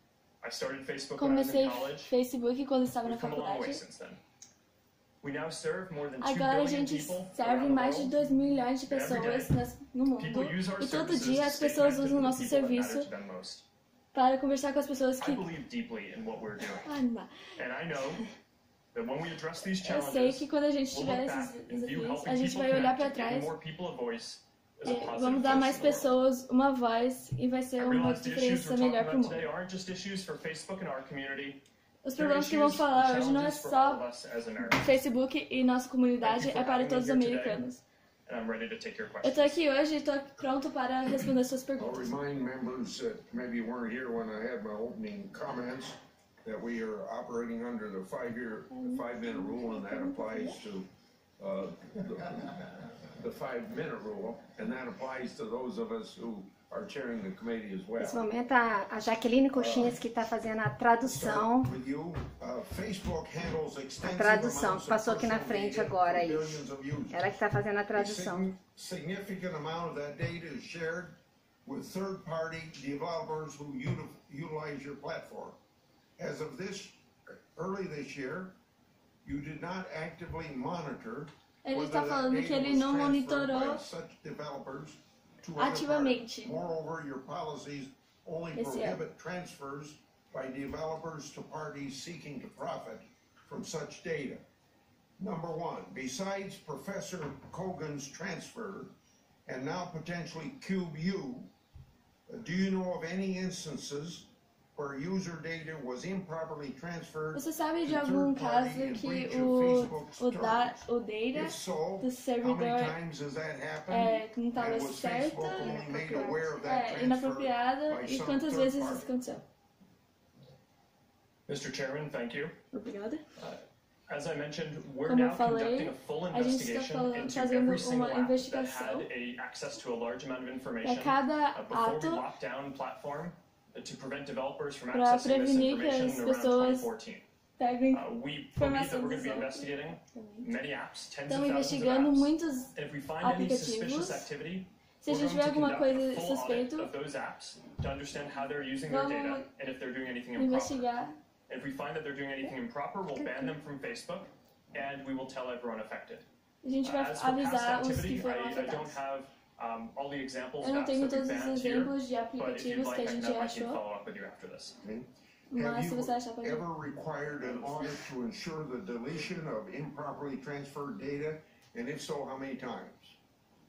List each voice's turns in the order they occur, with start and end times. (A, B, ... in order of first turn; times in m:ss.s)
0:00.4-0:02.1 A
0:01.2-0:03.8 B
0:03.0-0:04.2 A
0:05.2-0:08.1 A
0:06.2-0:13.1 B
0:08.9-0:09.5 A
0:10.2-0:13.6 A
0:14.1-0:15.4 B
0:15.2-0:16.9 A
0:16.7-0:17.3 B
0:17.6-0:18.2 A
0:18.9-0:26.1 A
0:19.7-0:23.5 B
0:24.8-0:29.5 B
0:27.8-0:31.6 A
0:32.0-0:34.0 B
0:32.1-0:34.9 A
0:34.7-0:37.8 B
0:36.2-0:37.6 A
0:38.2-0:39.6 A
0:39.2-0:42.1 B
0:41.8-0:50.9 C
0:48.7-0:50.6 B
0:51.4-0:58.3 C
0:58.0-1:01.7 D
0:59.5-1:00.0 C
1:01.0-1:07.3 C
1:04.0-1:06.6 D
1:07.1-1:08.4 D
1:07.9-1:15.6 C
1:16.2-1:18.5 C
1:19.2-1:34.4 C
1:21.6-1:23.8 B
1:25.6-1:26.5 B
1:28.5-1:29.0 B
1:35.2-1:38.9 C
1:39.4-1:41.5 C
1:42.3-1:59.1 C
1:47.3-1:53.0 B
1:53.9-1:59.4 B
2:01.5-2:02.6 A
2:02.7-2:03.2 B
2:03.4-2:17.2 A
2:05.0-2:09.1 B
2:10.8-2:12.2 B
2:14.9-2:16.9 B
2:17.6-2:20.5 B
2:17.9-2:30.9 A
2:21.3-2:24.3 B
2:25.0-2:26.9 B
2:28.9-2:29.4 B
2:30.3-2:31.1 B
2:31.5-2:36.2 A
2:33.3-2:33.5 B
2:36.6-2:39.0 B
2:36.8-2:44.8 A
2:40.6-2:43.8 B
2:44.8-2:53.2 C
2:45.5-2:46.6 B